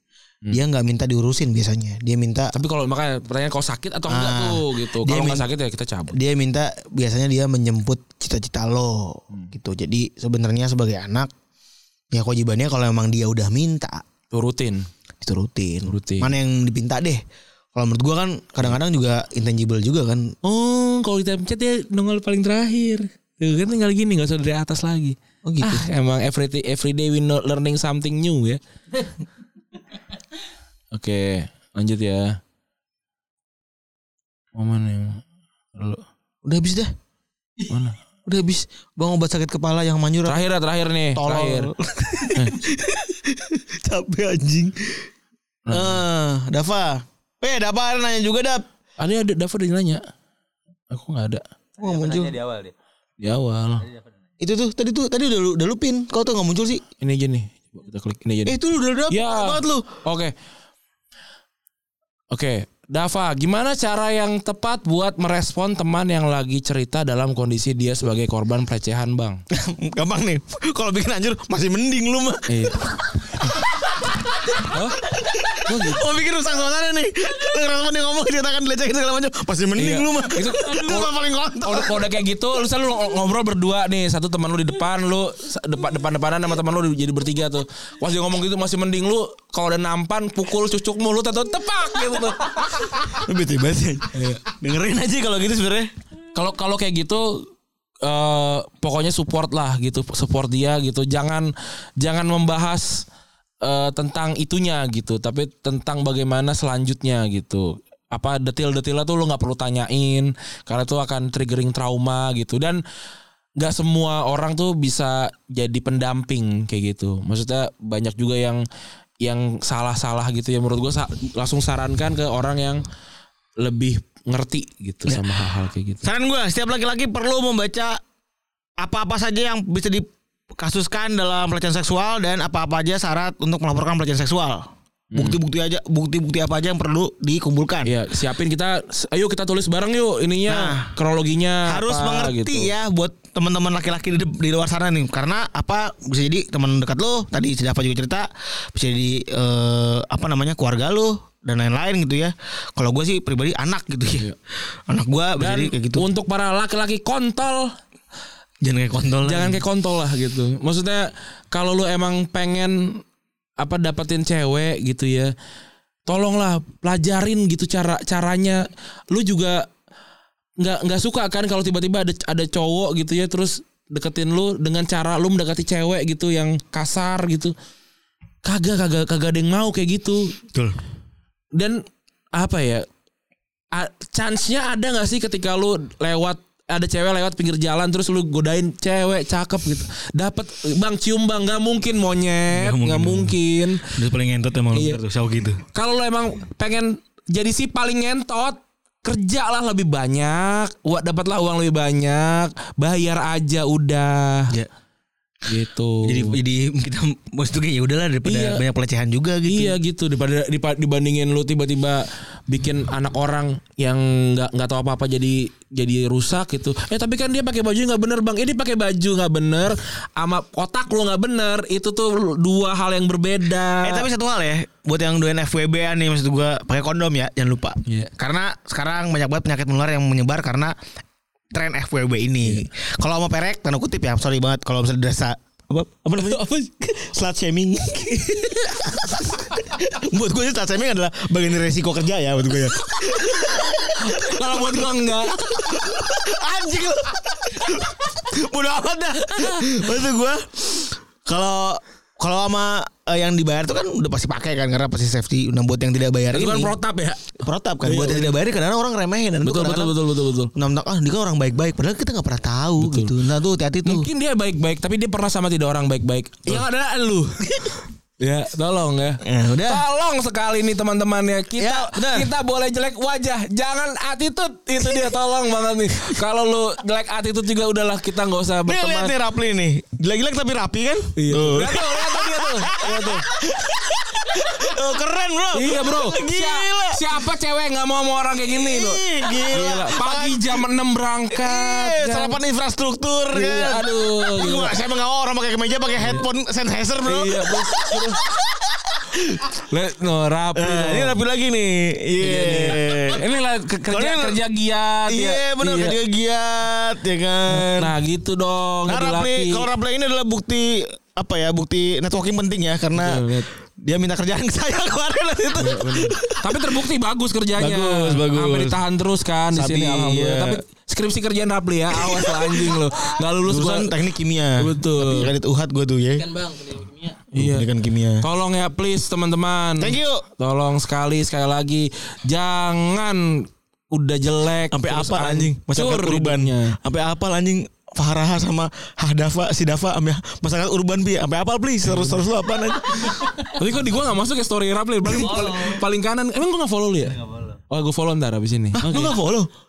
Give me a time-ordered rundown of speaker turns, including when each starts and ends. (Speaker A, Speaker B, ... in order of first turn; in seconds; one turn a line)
Speaker A: 0.5-2.5
Speaker B: 2.5-6.1
Speaker A: 4.1-5.5
Speaker A: 6.1-11.3
Speaker A: 12.1-14.0
Speaker B: 14.3-14.8
Speaker A: 15.2-17.2
Speaker B: 15.8-16.3
Speaker A: 17.7-20.3
Speaker B: 20.4-28.6
Speaker A: 25.4-25.9
Speaker B: 30.9-32.4
Speaker B: 34.5-35.2
Speaker B: 35.7-36.0
Speaker A: 36.4-36.9
Speaker B: 37.7-38.0
Speaker A: 38.2-40.4
Speaker B: 40.2-41.7
Speaker A: 41.1-45.1
Speaker B: 45.6-46.0
Speaker A: 45.7-48.6
Speaker B: 49.0-50.0
Speaker B: 50.9-51.4
Speaker A: 51.8-52.4
Speaker C: 51.8-52.7
Speaker B: 53.2-53.9
Speaker A: 54.4-56.8
Speaker B: 57.0-58.6
Speaker A: 58.5-59.9
Speaker B: 59.1-60.3
Speaker B: 62.3-69.4
Speaker A: 69.5-82.0
Speaker B: 72.5-72.8
Speaker B: 74.6-75.0
Speaker B: 75.6-76.1
Speaker B: 79.8-93.1
Speaker A: 93.1-95.9
Speaker B: 94.1-94.4
Speaker B: 96.3-97.5
Speaker B: 98.0-103.0
Speaker B: 103.6-112.8
Speaker B: 113.6-118.6
Speaker B: 119.2-122.8
Speaker B: 123.6-126.0
Speaker A: 125.0-125.5
Speaker A: 126.0-128.0
Speaker A: 128.8-137.9
Speaker B: 135.1-135.4
Speaker B: 137.8-142.7
Speaker A: 140.5-140.9
Speaker A: 141.7-154.3
Speaker B: 154.1-154.3
Speaker A: 154.9-156.1
Speaker B: 155.4-157.7
Speaker A: 158.6-159.6
Speaker B: 159.2-163.0
Speaker B: 163.6-165.3
Speaker B: 166.1-169.7
Speaker B: 170.6-177.5
Speaker B: 178.4-180.3
Speaker B: 181.5-181.8
Speaker B: 182.3-182.8
Speaker B: 183.7-193.9
Speaker A: 192.5-195.6
Speaker B: 194.7-195.0
Speaker B: 195.7-204.5
Speaker B: 205.4-206.4
Speaker A: 206.0-209.8
Speaker B: 208.2-208.6
Speaker B: 209.4-224.1
Speaker A: 223.8-230.7
Speaker B: 227.8-228.1
Speaker A: 231.5-256.7
Speaker B: 236.2-236.5
Speaker B: 243.9-245.8
Speaker B: 256.3-258.4
Speaker A: 257.4-259.9
Speaker B: 259.4-260.5
Speaker A: 260.5-264.1
Speaker B: 262.8-263.1
Speaker B: 263.8-267.4
Speaker A: 267.5-267.8
Speaker B: 268.2-279.1
Speaker A: 269.2-269.8
Speaker A: 271.6-272.3
Speaker A: 274.8-275.1
Speaker A: 278.6-287.0
Speaker B: 281.1-283.3
Speaker B: 285.5-292.4
Speaker A: 288.5-290.6
Speaker A: 291.3-299.5
Speaker B: 293.3-294.7
Speaker B: 296.0-296.2
Speaker B: 297.1-298.2
Speaker B: 299.7-301.1
Speaker A: 300.6-303.2
Speaker B: 302.2-306.0
Speaker A: 303.9-304.4
Speaker A: 305.1-307.9
Speaker B: 307.5-309.7
Speaker A: 308.9-316.7
Speaker B: 312.9-313.5
Speaker B: 315.6-323.9
Speaker A: 317.6-318.8
Speaker A: 319.5-320.6
Speaker A: 321.9-326.3
Speaker B: 324.6-325.3
Speaker C: 326.1-327.2
Speaker A: 327.3-328.2
Speaker B: 327.3-327.7
Speaker B: 328.2-336.8
Speaker A: 329.8-330.2
Speaker A: 334.7-343.4
Speaker B: 341.8-342.2
Speaker B: 343.4-349.2
Speaker C: 345.1-345.8
Speaker C: 347.1-347.6
Speaker A: 348.7-349.5